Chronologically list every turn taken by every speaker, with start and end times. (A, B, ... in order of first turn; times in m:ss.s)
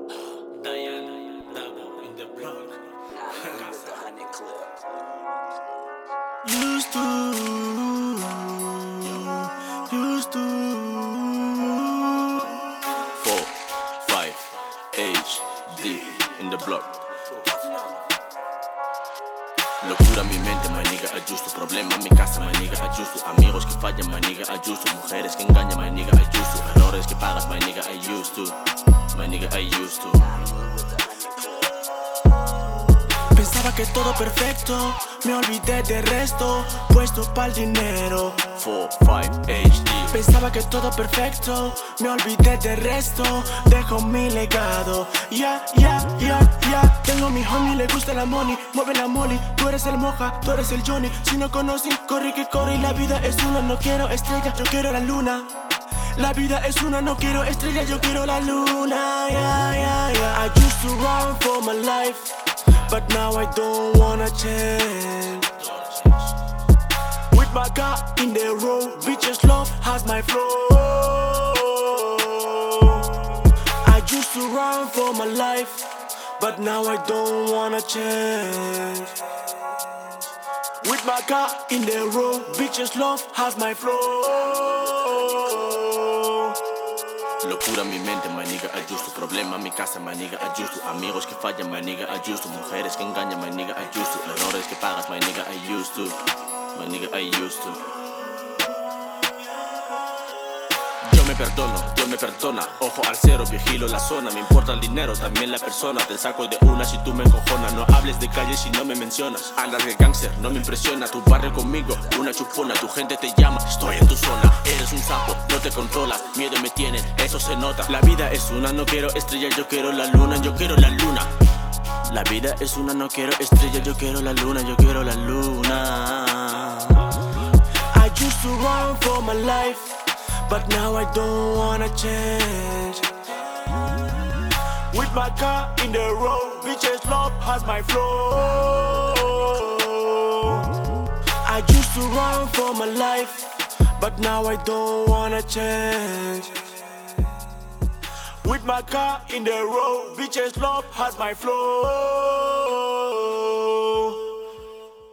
0:00.2-0:04.3 A
0:06.5-0:07.6 A
0:06.7-0:12.2 B
0:09.0-0:09.4 A
0:13.1-0:17.0 A
0:19.8-0:30.5 A
0:33.3-0:38.6 B
0:38.6-0:40.1 A
0:40.0-0:55.6 B
0:56.1-1:05.6 B
1:05.6-1:06.3 A
1:07.3-1:19.3 B
1:20.8-1:26.6 B
1:27.4-1:38.0 A
1:41.0-2:01.3 A
2:02.0-2:07.2 A
2:07.9-2:13.2 B
2:14.9-2:20.8 B
2:21.4-2:26.7 B
2:28.4-2:34.2 B